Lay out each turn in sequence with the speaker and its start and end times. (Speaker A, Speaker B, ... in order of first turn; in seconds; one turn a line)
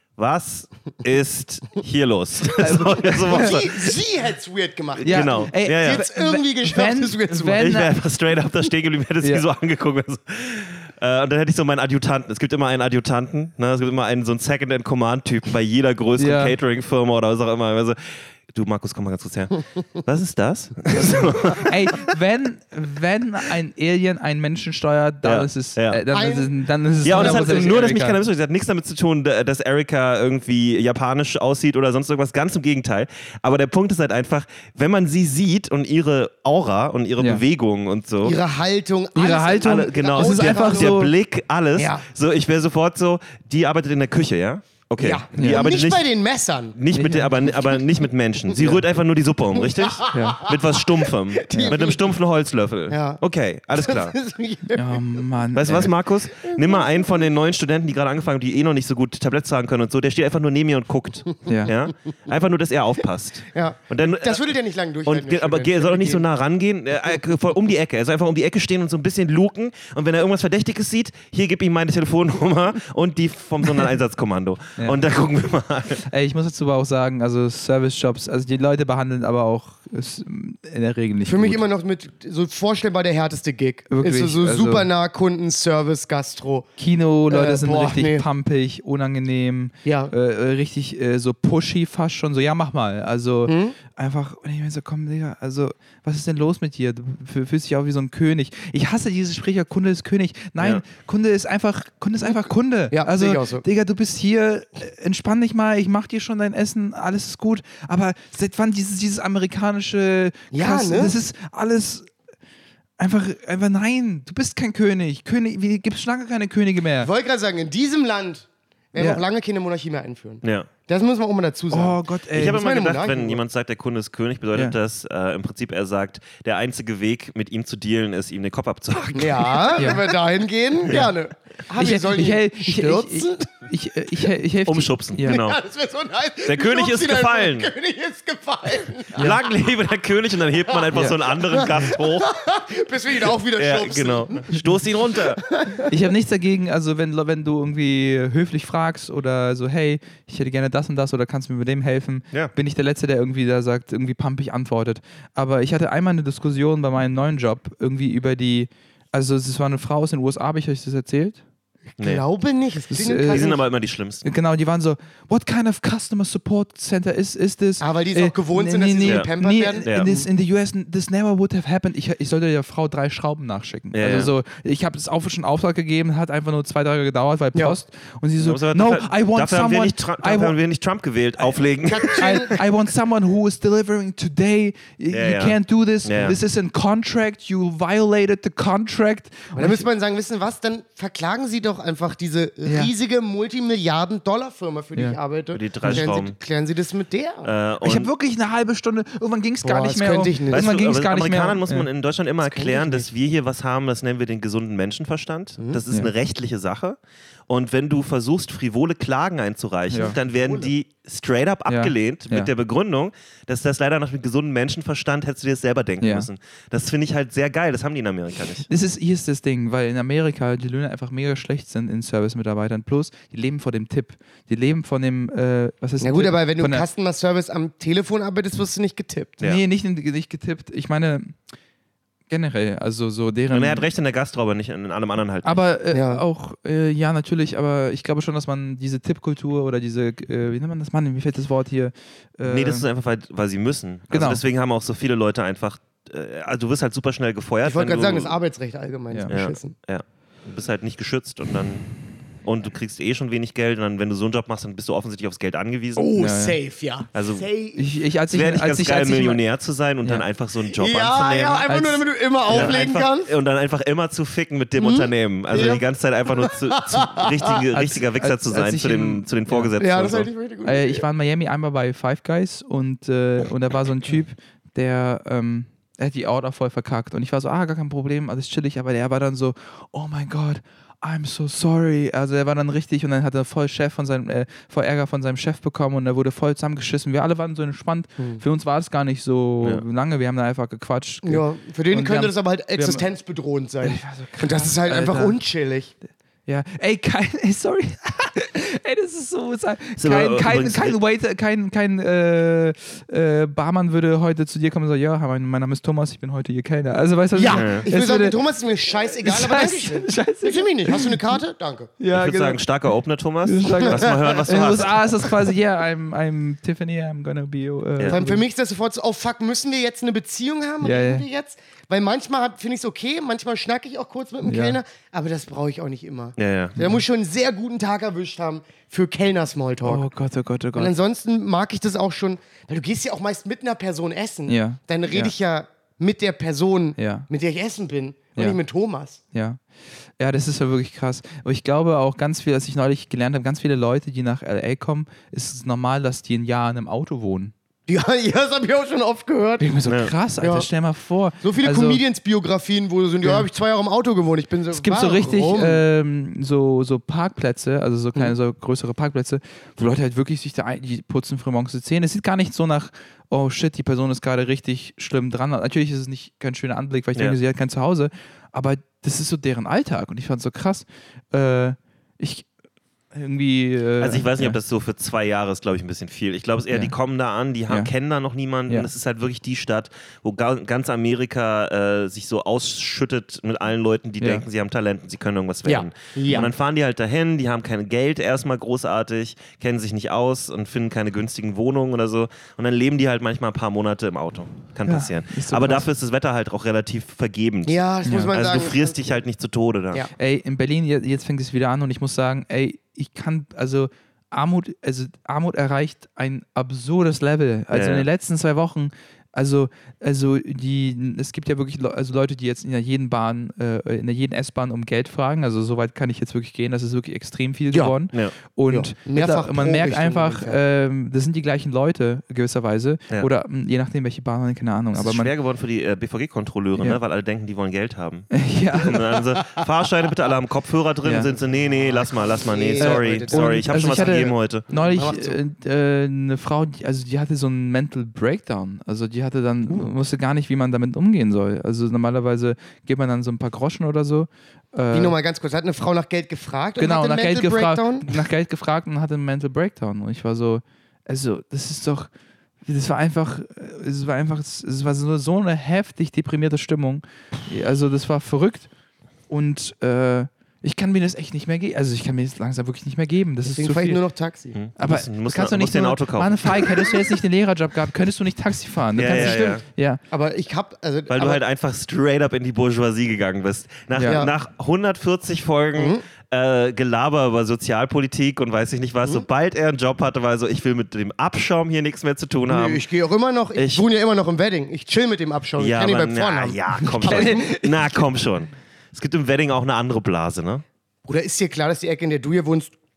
Speaker A: 0.2-3.7
Speaker B: 2.6-3.9
Speaker C: 3.3-7.6
Speaker A: 5.0-6.1
Speaker B: 5.0-7.9
Speaker A: 7.4-22.0
Speaker B: 16.2-16.5
Speaker B: 21.6-28.2
Speaker A: 25.2-26.0
Speaker C: 26.1-27.9
Speaker A: 27.0-38.4
Speaker C: 38.2-41.0
Speaker B: 39.1-41.1
Speaker A: 39.7-46.0
Speaker C: 41.8-42.0
Speaker C: 45.0-46.8
Speaker B: 45.3-45.6
Speaker A: 46.7-54.1
Speaker B: 46.9-47.3
Speaker C: 48.5-48.8
Speaker C: 49.5-52.0
Speaker B: 50.1-50.4
Speaker C: 52.9-53.2
Speaker C: 53.7-55.1
Speaker B: 54.7-55.9
Speaker A: 55.5-64.5
Speaker C: 56.3-57.0
Speaker B: 61.5-61.7
Speaker C: 63.5-66.2
Speaker A: 65.0-76.0
Speaker B: 76.0-81.6
Speaker C: 81.2-86.7
Speaker B: 83.9-84.9
Speaker B: 86.8-112.1
Speaker C: 87.3-88.2
Speaker C: 89.8-90.1
Speaker C: 93.5-93.8
Speaker A: 100.6-100.8
Speaker C: 102.9-103.6
Speaker C: 110.5-111.2
Speaker B: 113.0-117.1
Speaker C: 117.0-123.4
Speaker B: 119.0-119.2
Speaker A: 120.4-120.7
Speaker B: 121.7-122.6
Speaker A: 122.3-130.0
Speaker C: 129.1-133.5
Speaker B: 131.8-135.4
Speaker A: 134.7-135.6
Speaker C: 135.3-139.4
Speaker A: 136.4-137.7
Speaker A: 139.2-142.3
Speaker B: 140.9-141.2
Speaker C: 141.5-144.6
Speaker A: 143.6-145.4
Speaker C: 145.1-145.9
Speaker B: 145.9-161.4
Speaker C: 161.9-163.6
Speaker B: 162.9-163.6
Speaker A: 163.3-164.2
Speaker B: 164.2-180.6
Speaker C: 167.8-170.3
Speaker A: 173.9-174.3
Speaker A: 178.4-182.6
Speaker B: 181.4-189.8
Speaker C: 181.8-182.6
Speaker A: 185.1-186.4
Speaker C: 189.5-197.5
Speaker B: 192.6-192.9
Speaker A: 195.5-196.3
Speaker A: 197.4-198.1
Speaker B: 197.8-201.9
Speaker C: 199.6-200.6
Speaker A: 200.5-207.0
Speaker C: 202.4-203.1
Speaker A: 207.5-218.7
Speaker B: 209.9-210.2
Speaker C: 210.2-210.7
Speaker B: 211.7-212.5
Speaker B: 216.0-216.3
Speaker B: 218.7-226.8
Speaker C: 226.0-229.4
Speaker B: 229.4-231.4
Speaker B: 232.3-233.8
Speaker A: 233.5-235.6
Speaker B: 235.4-242.8
Speaker C: 235.9-236.2
Speaker A: 242.4-248.3
Speaker B: 244.1-244.4
Speaker C: 247.6-249.7
Speaker A: 249.3-256.1
Speaker C: 255.9-257.8
Speaker B: 256.2-256.6
Speaker A: 257.1-257.5
Speaker B: 257.8-259.4
Speaker A: 258.3-261.7
Speaker C: 260.7-263.3
Speaker B: 261.7-262.7
Speaker A: 262.5-270.3
Speaker C: 264.8-267.5
Speaker B: 267.7-269.7
Speaker C: 269.8-271.0
Speaker B: 270.6-293.1
Speaker C: 288.2-288.4
Speaker C: 291.2-295.9
Speaker B: 293.8-295.3
Speaker B: 296.5-308.4
Speaker A: 300.0-300.9
Speaker C: 307.3-311.9
Speaker A: 307.5-307.9
Speaker B: 309.0-311.3
Speaker B: 312.0-312.6
Speaker A: 312.1-315.3
Speaker B: 313.4-318.4
Speaker C: 313.8-314.8
Speaker C: 318.1-330.1
Speaker B: 320.8-321.2
Speaker B: 324.4-324.8
Speaker A: 326.4-326.8
Speaker B: 329.8-330.9
Speaker C: 330.7-339.2
Speaker B: 334.5-335.3
Speaker B: 337.0-337.3
Speaker B: 338.3-338.6
Speaker B: 339.3-347.5
Speaker C: 347.9-349.6
Speaker B: 349.6-352.0
Speaker C: 350.4-350.7
Speaker C: 351.4-355.8
Speaker B: 354.7-372.5
Speaker B: 373.1-374.6
Speaker A: 374.0-400.0
Speaker B: 384.2-384.4
Speaker C: 385.6-386.5
Speaker B: 394.9-395.9
Speaker C: 397.6-399.1
Speaker B: 398.0-398.3
Speaker B: 400.1-425.3
Speaker A: 407.7-408.1
Speaker C: 418.7-420.6
Speaker A: 424.9-434.7
Speaker B: 428.3-429.0
Speaker B: 431.0-431.3
Speaker C: 431.8-434.0
Speaker B: 432.8-445.1
Speaker C: 434.7-435.4
Speaker C: 444.9-448.1
Speaker B: 446.8-452.1
Speaker B: 452.6-458.7
Speaker B: 459.3-464.0
Speaker C: 463.4-464.5
Speaker A: 464.5-466.9
Speaker B: 464.8-470.0
Speaker A: 468.9-469.6
Speaker C: 469.1-469.6
Speaker C: 470.1-471.4
Speaker A: 471.1-482.8
Speaker B: 473.9-474.2
Speaker C: 474.1-474.3
Speaker C: 475.8-476.0
Speaker C: 482.5-487.5
Speaker A: 483.5-483.9
Speaker A: 485.6-490.6
Speaker B: 486.9-488.1
Speaker C: 491.1-492.8